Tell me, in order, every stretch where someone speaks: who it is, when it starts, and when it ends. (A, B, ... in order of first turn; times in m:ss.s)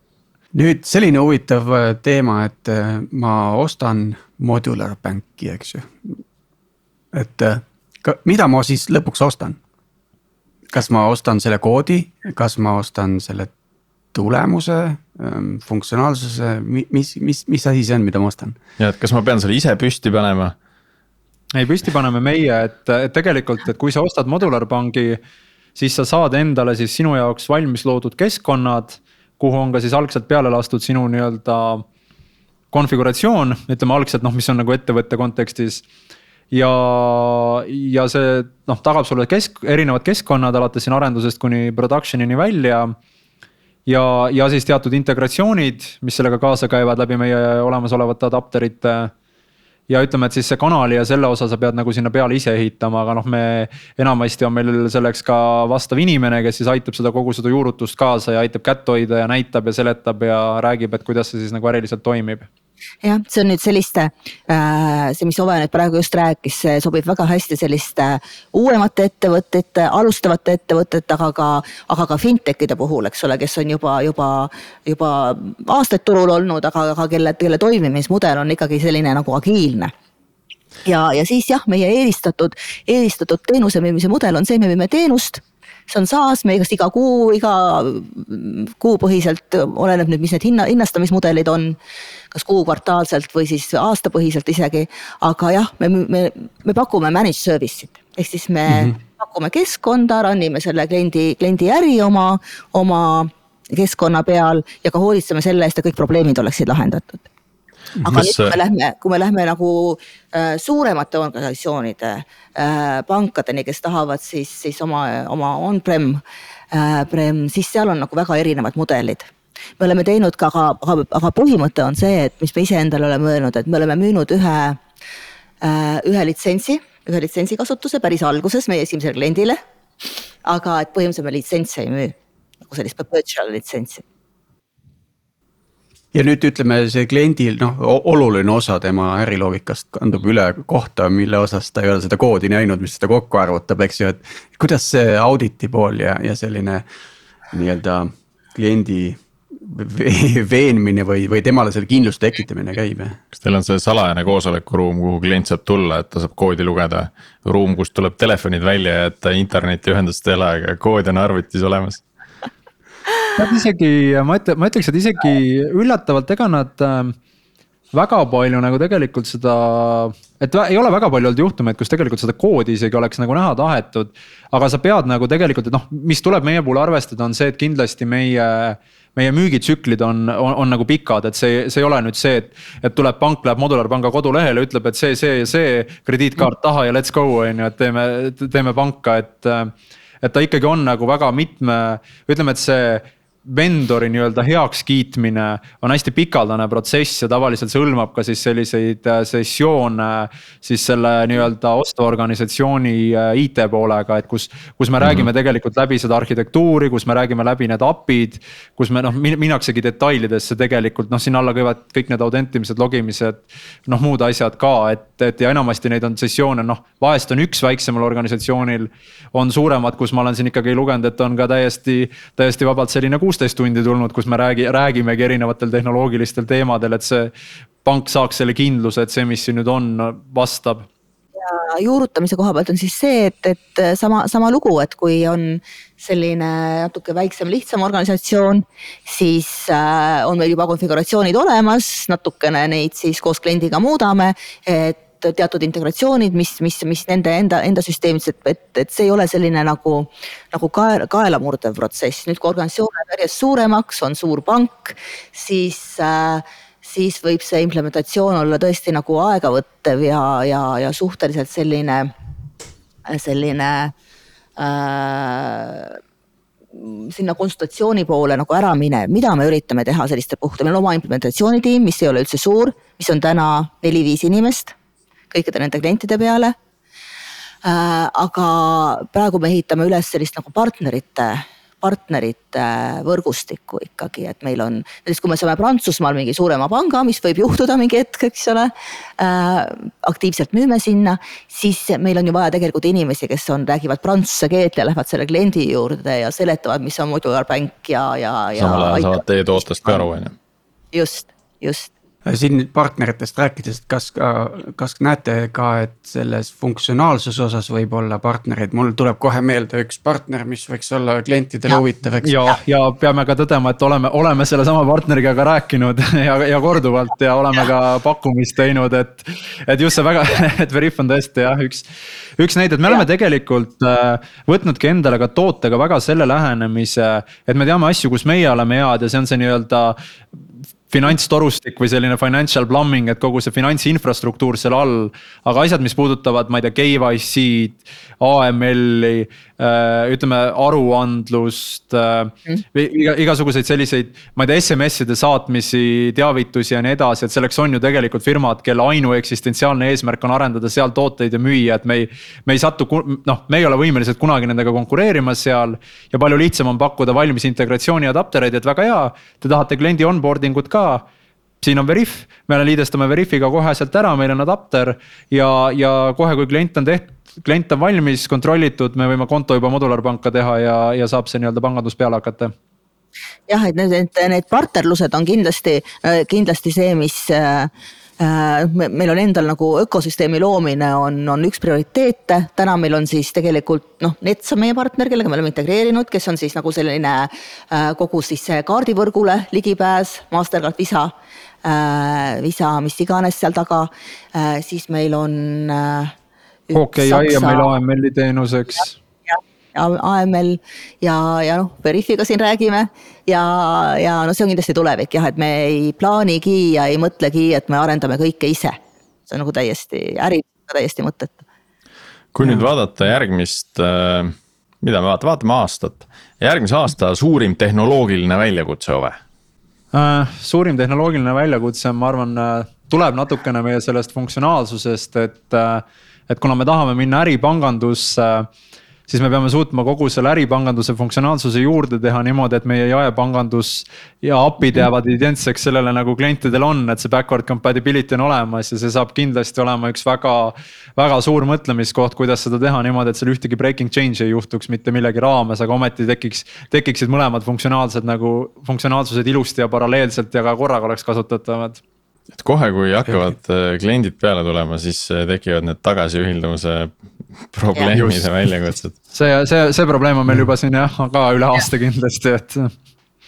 0:00.5-0:06.1 A
0:07.1-0:09.6 A
0:10.7-0:13.5 A
0:14.1-0:18.6 A
0:18.8-0:20.5 B
0:21.5-0:25.2 C
0:25.8-0:31.8 C
0:32.7-0:35.8 C
0:36.5-0:42.9 C
0:43.8-0:49.1 C
0:49.9-1:02.4 C
1:03.0-1:19.9 D
1:20.8-1:31.8 D
1:32.3-1:47.3 D
1:38.7-1:38.9 A
1:48.0-2:04.8 D
1:48.1-1:48.6 B
2:05.6-2:09.6 D
2:10.4-2:12.1 D
2:12.6-2:14.0 D
2:16.1-2:26.8 A
2:27.5-2:33.2 A
2:33.3-2:42.0 B
2:43.4-2:47.2 C
2:47.9-3:47.3 C
3:25.0-3:25.3 B
3:47.8-3:50.8 C
3:51.4-4:22.1 D
4:23.1-4:23.9 D
4:24.6-4:26.0 D
4:26.7-4:34.7 D
4:35.3-4:36.6 D
4:37.6-5:00.1 D
4:58.5-5:00.3 B
5:00.9-5:01.9 D
5:02.2-5:12.3 A
5:12.2-5:21.8 C
5:22.4-5:30.0 C
5:30.9-6:01.0 C
6:01.6-6:12.5 C
6:13.5-6:36.1 D
6:36.7-6:37.7 D
6:36.7-6:38.9 C
6:39.3-6:51.4 D
6:52.3-6:59.2 B
6:59.9-7:08.5 C
7:09.1-7:31.8 C
7:32.3-7:36.9 B
7:37.4-7:38.9 B
7:37.9-7:38.3 A
7:39.1-7:42.7 C